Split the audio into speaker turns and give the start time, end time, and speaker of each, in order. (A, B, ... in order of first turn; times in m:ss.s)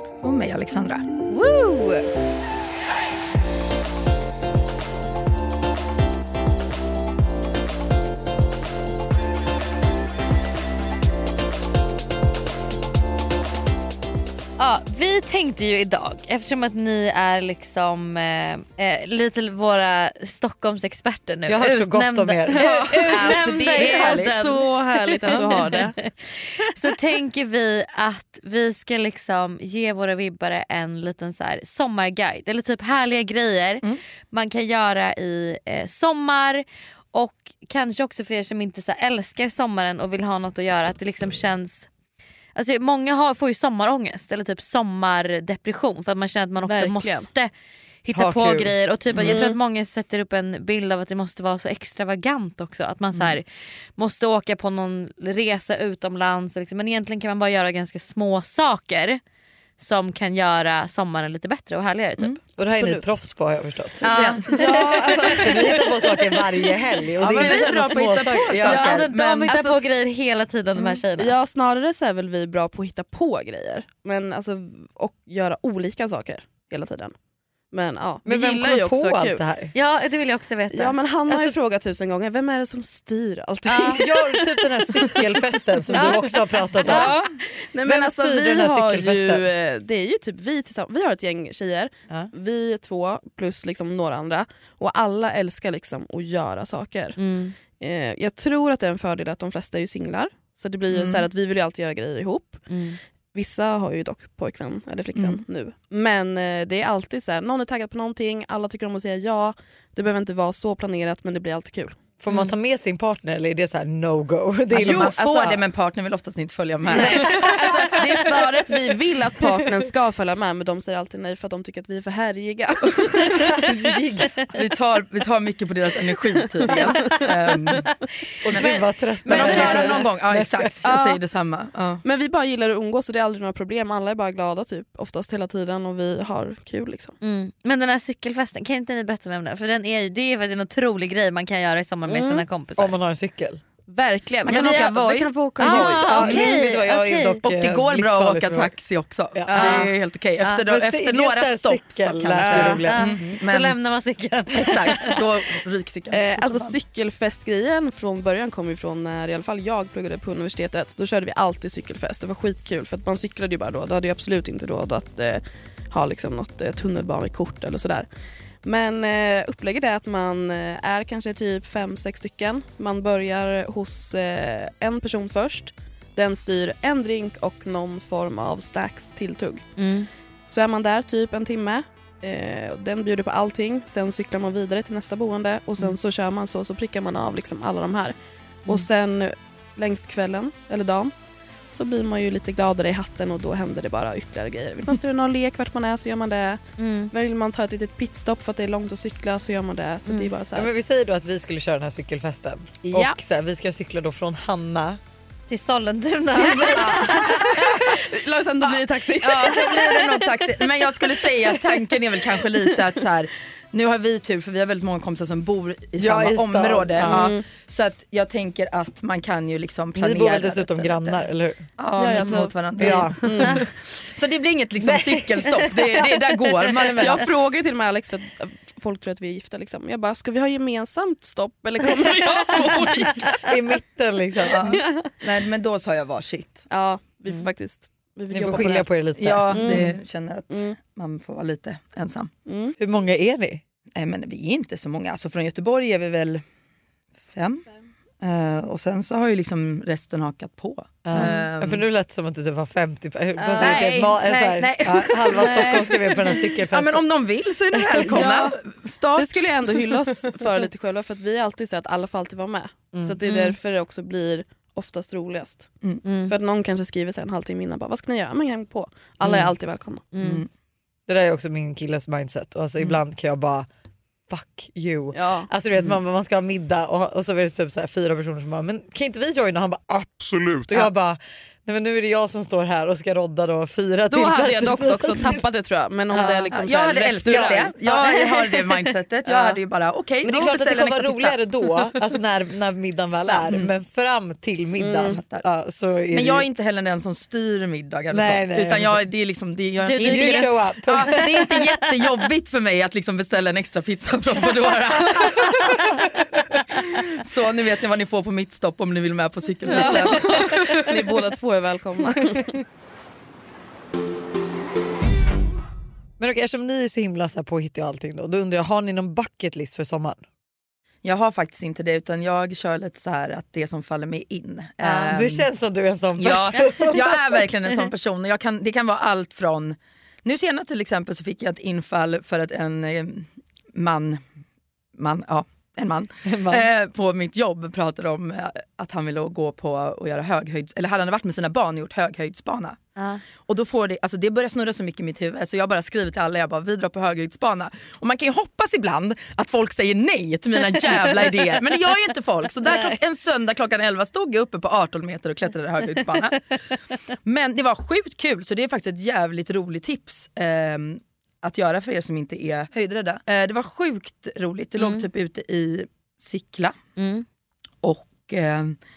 0:00.2-0:01.0 A
0:01.3-0:02.1 B
0:14.6-0:41.9 B
0:21.5-0:22.6 C
0:22.6-0:24.6 A
0:22.6-0:26.0 D
0:42.5-0:47.5 B
0:46.6-0:47.3 D
0:48.0-0:53.4 B
0:48.1-0:48.7 C
0:49.3-0:49.6 D
0:54.0-0:59.2 B
0:59.8-1:02.4 B
1:02.5-1:09.0 C
1:02.8-1:03.0 D
1:04.0-1:05.8 B
1:04.0-1:04.8 A
1:04.5-1:06.4 D
1:07.2-1:09.9 A
1:07.4-1:08.0 B
1:08.6-1:11.3 B
1:11.1-1:17.1 D
1:17.7-1:19.4 D
1:18.2-1:19.7 C
1:19.7-1:21.0 B
1:20.7-1:24.3 D
1:21.3-1:21.5 C
1:23.7-1:25.2 B
1:23.8-1:27.2 C
1:25.9-1:37.2 D
1:25.9-1:26.2 B
1:26.8-1:27.2 B
1:27.8-1:29.4 C
1:37.2-1:37.5 B
1:37.7-1:42.7 D
1:40.9-1:41.2 A
1:42.7-1:43.0 B
1:43.3-1:52.0 D
1:45.2-1:45.4 A
1:52.2-1:55.6 C
1:54.7-1:57.5 A
1:54.7-1:55.2 D
1:56.9-2:03.4 D
1:57.0-1:58.0 C
2:03.2-2:04.4 C
2:04.5-2:07.9 A
2:06.7-2:07.2 D
2:08.4-2:10.8 C
2:08.5-2:12.0 A
2:08.6-2:10.0 B
2:10.8-2:11.2 D
2:12.0-2:17.2 D
2:17.2-2:22.9 B
2:22.1-2:22.4 D
2:22.8-2:23.6 C
2:23.9-2:26.3 D
2:24.4-2:26.0 A
2:25.6-2:27.4 B
2:25.6-2:28.7 C
2:27.4-2:33.8 A
2:29.3-2:29.8 C
2:29.5-2:29.9 D
2:29.5-2:29.9 B
2:30.4-2:33.2 C
2:32.5-2:35.2 B
2:34.5-2:36.8 A
2:34.6-2:35.0 C
2:36.1-2:48.1 D
2:48.6-2:59.6 D
2:59.8-3:00.1 B
3:00.5-3:08.1 D
3:08.7-3:11.1 D
3:11.7-3:20.7 D
3:16.8-3:17.1 B
3:20.5-3:25.0 C
3:22.9-3:23.2 D
3:25.5-3:27.3 B
3:26.3-3:30.2 D
3:26.4-3:27.8 C
3:28.6-3:47.3 A
3:36.0-3:37.3 C
3:37.0-3:37.4 D
3:39.9-3:41.6 C
3:42.0-3:43.6 D
3:42.2-3:43.6 C
3:44.8-3:47.1 C
3:46.9-3:53.4 D
3:51.8-3:54.8 C
3:54.4-3:56.6 A
3:54.6-3:55.1 D
3:56.7-3:58.9 D
3:58.3-3:59.9 C
3:59.2-4:02.3 A
3:59.5-3:59.9 D
4:00.5-4:00.8 D
4:02.4-4:02.8 D
4:02.8-4:03.6 C
4:03.9-4:06.4 A
4:07.3-4:07.6 A
4:08.2-4:11.8 A
4:11.0-4:17.1 C
4:11.1-4:11.4 D
4:13.4-4:14.1 D
4:13.6-4:20.1 A
4:15.3-4:16.0 D
4:17.7-4:18.2 C
4:18.0-4:18.6 D
4:19.1-4:25.7 D
4:23.2-4:23.6 B
4:26.0-4:26.3 B
4:26.3-4:30.0 D
4:29.2-4:29.5 C
4:30.1-4:30.4 B
4:30.2-4:30.5 A
4:31.1-4:33.7 C
4:34.3-4:45.4 C
4:35.1-4:35.5 D
4:44.1-4:47.7 D
4:46.1-4:46.5 B
4:46.5-4:52.0 A
4:47.3-4:47.6 C
4:47.8-4:48.8 B
4:50.2-4:56.4 C
4:53.4-4:53.7 A
4:54.8-4:55.2 D
4:55.1-4:55.4 A
4:56.1-5:11.0 A
4:58.1-4:59.0 C
4:59.8-5:01.6 B
4:59.9-5:01.5 C
5:09.7-5:12.5 D
5:16.2-5:20.2 C
5:21.0-5:25.5 A
5:24.8-5:27.9 C
5:26.2-5:34.2 A
5:35.0-5:42.8 A
5:36.2-5:36.7 C
5:43.0-5:43.2 B
5:43.4-5:56.4 A
5:57.2-6:06.8 A
6:04.8-6:05.0 B
6:07.0-6:07.2 B
6:07.8-6:08.8 A